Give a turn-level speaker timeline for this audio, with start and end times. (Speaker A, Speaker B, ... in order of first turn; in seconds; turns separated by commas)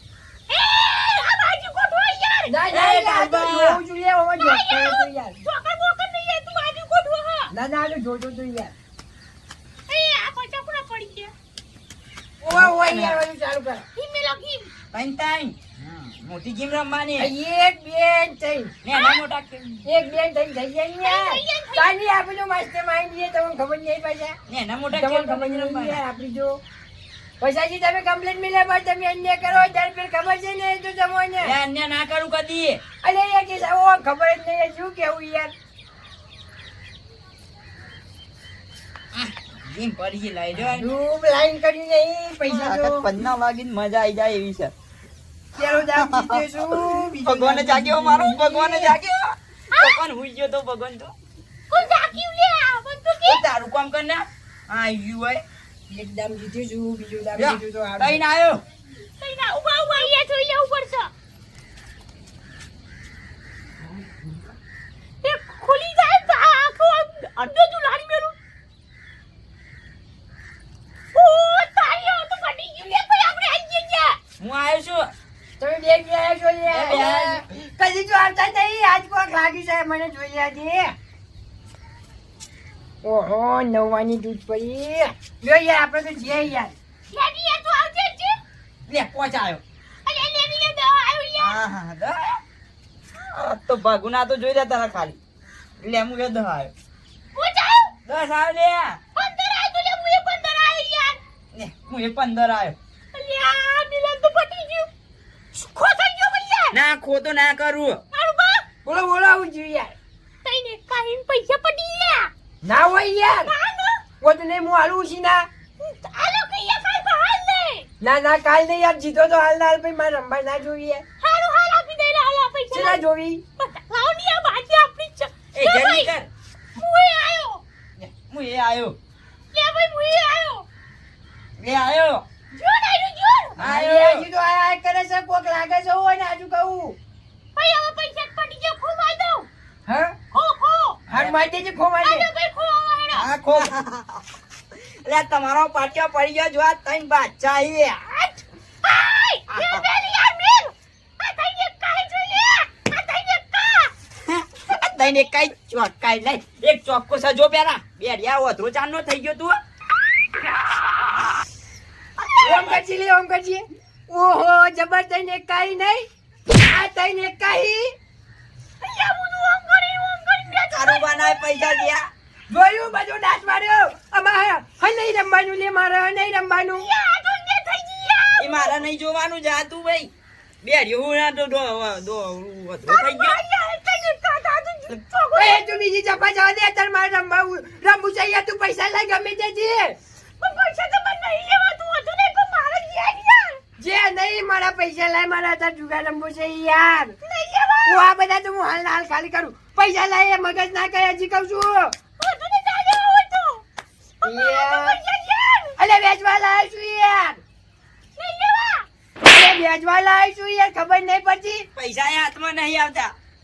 Speaker A: 0.5-2.5, Speaker B: 2.5-5.3, Speaker C: 2.7-3.8, Speaker A: 4.4-7.5, Speaker B: 7.5-8.7, Speaker A: 9.9-11.3, Speaker B: 12.4-13.8, Speaker C: 12.5-13.2, Speaker A: 13.9-14.7, Speaker C: 14.9-17.3, Speaker B: 17.2-18.7, Speaker C: 18.8-19.9, Speaker A: 18.9-19.2, Speaker B: 19.8-24.4, Speaker A: 21.0-21.9, Speaker C: 24.5-26.0, Speaker B: 24.9-26.6, Speaker B: 27.4-31.6, Speaker C: 31.4-32.8, Speaker B: 33.0-35.5, Speaker C: 39.1-40.9, Speaker B: 40.6-43.1, Speaker C: 42.5-44.7, Speaker B: 45.5-48.9, Speaker C: 46.0-46.4, Speaker C: 47.2-51.1, Speaker A: 49.7-50.0, Speaker A: 51.7-53.4, Speaker C: 53.2-55.4, Speaker B: 55.9-58.2, Speaker C: 57.4-58.6, Speaker A: 59.2-61.1, Speaker A: 65.2-68.3, Speaker A: 71.1-74.2, Speaker C: 74.4-75.1, Speaker B: 75.6-80.9, Speaker C: 76.7-77.4, Speaker B: 83.0-86.7, Speaker A: 87.1-88.4, Speaker C: 88.9-89.6, Speaker A: 90.0-91.6, Speaker C: 91.4-92.4, Speaker C: 93.3-95.2, Speaker C: 95.8-96.7, Speaker A: 97.3-97.9, Speaker C: 98.0-99.0, Speaker A: 99.1-101.2, Speaker C: 101.5-102.8, Speaker A: 103.1-104.9, Speaker A: 105.5-106.8, Speaker C: 106.7-108.0, Speaker A: 108.1-108.7, Speaker B: 108.8-109.9, Speaker A: 110.4-112.3, Speaker B: 112.6-113.5, Speaker A: 113.4-114.0, Speaker B: 114.2-115.5, Speaker A: 115.8-117.9, Speaker B: 118.0-121.0, Speaker A: 121.2-123.0, Speaker B: 122.7-123.4, Speaker A: 123.6-126.1, Speaker C: 125.5-126.3, Speaker A: 126.7-127.6, Speaker C: 128.0-129.0, Speaker A: 129.5-130.7, Speaker C: 131.6-132.2, Speaker A: 132.5-133.6, Speaker C: 133.6-134.3, Speaker B: 133.6-137.0, Speaker A: 137.5-139.5, Speaker B: 139.9-140.1, Speaker A: 140.3-141.0, Speaker C: 141.1-141.4, Speaker B: 141.1-142.3, Speaker A: 142.0-143.3, Speaker C: 143.1-144.2, Speaker C: 145.0-148.1, Speaker A: 148.1-153.9, Speaker C: 149.5-149.8, Speaker C: 154.2-159.6, Speaker A: 162.2-162.8, Speaker B: 162.4-166.1, Speaker B: 166.7-167.9, Speaker A: 168.8-171.9, Speaker C: 170.7-172.1, Speaker B: 172.5-176.9, Speaker A: 176.8-178.8, Speaker C: 178.4-180.1, Speaker C: 180.6-183.4, Speaker A: 182.8-185.6, Speaker B: 185.3-190.0, Speaker A: 190.4-193.6, Speaker B: 193.8-197.2, Speaker A: 197.2-198.0, Speaker B: 197.8-201.9, Speaker A: 202.2-203.6, Speaker A: 204.2-205.8, Speaker B: 204.2-205.0, Speaker B: 205.8-207.4, Speaker A: 208.2-208.9, Speaker B: 209.2-211.7, Speaker C: 211.8-213.1